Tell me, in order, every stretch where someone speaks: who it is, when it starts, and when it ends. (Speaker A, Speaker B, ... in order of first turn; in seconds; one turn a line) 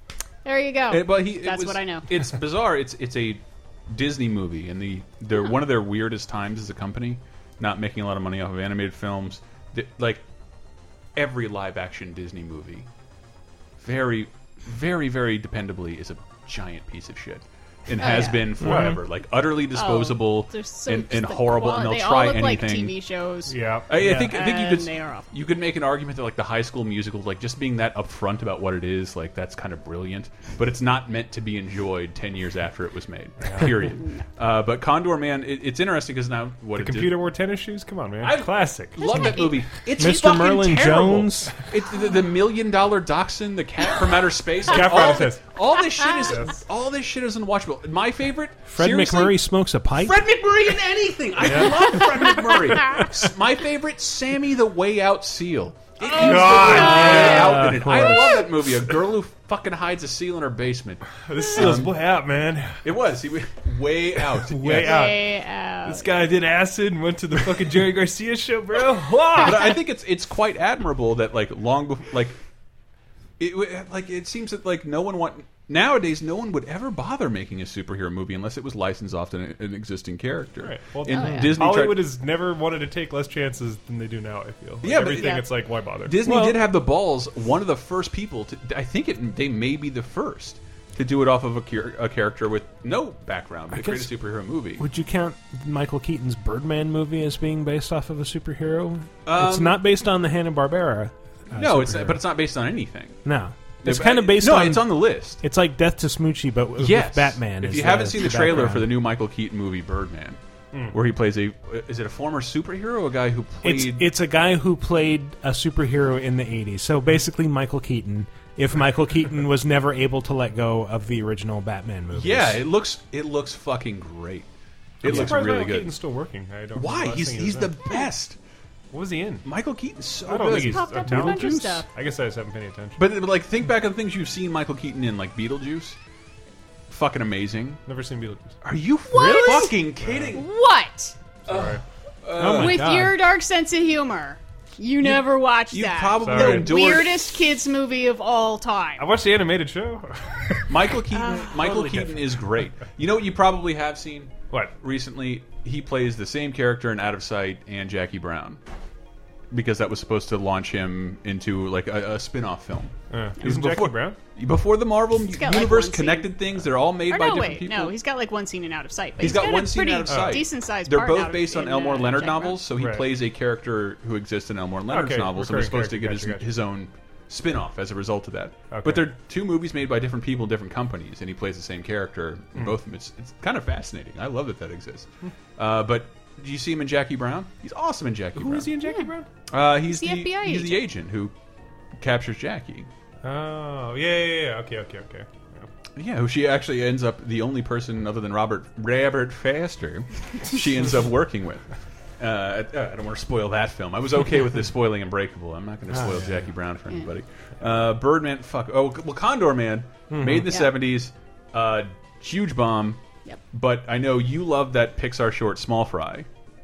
Speaker A: 0.4-2.1
Speaker B: 0.9-10.2
Speaker B: 11.2-12.9
Speaker B: 13.8-22.9
Speaker A: 18.0-18.6
Speaker C: 18.6-19.0
Speaker D: 18.6-19.0
Speaker A: 19.7-25.3
Speaker D: 23.5-24.2
Speaker B: 23.9-37.2
Speaker D: 33.4-33.8
Speaker D: 36.8-39.2
Speaker B: 38.2-49.4
Speaker A: 39.0-39.6
Speaker C: 40.0-41.5
Speaker D: 44.7-45.4
Speaker D: 46.3-46.5
Speaker C: 48.7-50.2
Speaker B: 50.0-62.0
Speaker D: 51.4-51.7
Speaker A: 56.0-57.6
Speaker D: 56.1-58.1
Speaker C: 57.1-58.1
Speaker D: 61.2-62.8
Speaker B: 62.8-65.0
Speaker D: 64.3-65.3
Speaker A: 64.7-66.2
Speaker D: 65.8-69.7
Speaker A: 69.3-69.7
Speaker B: 69.4-72.3
Speaker B: 73.4-82.1
Speaker D: 80.6-86.2
Speaker B: 84.8-85.5
Speaker A: 85.0-85.5
Speaker B: 86.0-94.8
Speaker C: 86.2-86.6
Speaker C: 93.7-94.1
Speaker C: 94.8-102.2
Speaker B: 99.2-99.8
Speaker B: 101.5-103.2
Speaker C: 103.2-108.9
Speaker B: 103.8-105.4
Speaker B: 106.8-110.4
Speaker B: 110.9-114.1
Speaker C: 113.6-122.6
Speaker B: 122.1-124.5
Speaker B: 125.0-126.0
Speaker D: 125.0-127.8
Speaker C: 125.0-125.5
Speaker B: 126.7-128.4
Speaker D: 128.9-129.4
Speaker B: 129.4-131.8
Speaker D: 130.2-133.0
Speaker A: 130.4-131.9
Speaker B: 133.0-136.0
Speaker B: 136.9-137.8
Speaker D: 137.8-138.5
Speaker B: 138.6-140.5
Speaker A: 139.1-141.1
Speaker D: 140.0-140.3
Speaker D: 141.5-141.8
Speaker B: 141.5-142.8
Speaker D: 142.4-143.0
Speaker C: 142.4-143.1
Speaker A: 142.4-149.1
Speaker B: 145.0-147.5
Speaker D: 146.2-146.7
Speaker D: 149.0-150.6
Speaker B: 150.7-158.6
Speaker A: 151.1-151.5
Speaker D: 151.6-152.3
Speaker B: 159.5-167.9
Speaker D: 163.1-164.2
Speaker A: 165.3-166.4
Speaker A: 167.0-172.7
Speaker B: 169.2-188.7
Speaker D: 170.1-170.4
Speaker D: 172.7-173.1
Speaker D: 174.9-176.5
Speaker D: 178.7-179.0
Speaker D: 188.3-189.3
Speaker A: 188.8-189.1
Speaker B: 189.5-191.3
Speaker A: 189.8-190.8
Speaker B: 192.0-192.9
Speaker D: 193.2-195.7
Speaker B: 196.0-201.7
Speaker B: 202.2-213.0
Speaker C: 205.9-206.3
Speaker C: 210.1-210.5
Speaker A: 210.5-210.7
Speaker B: 213.5-216.3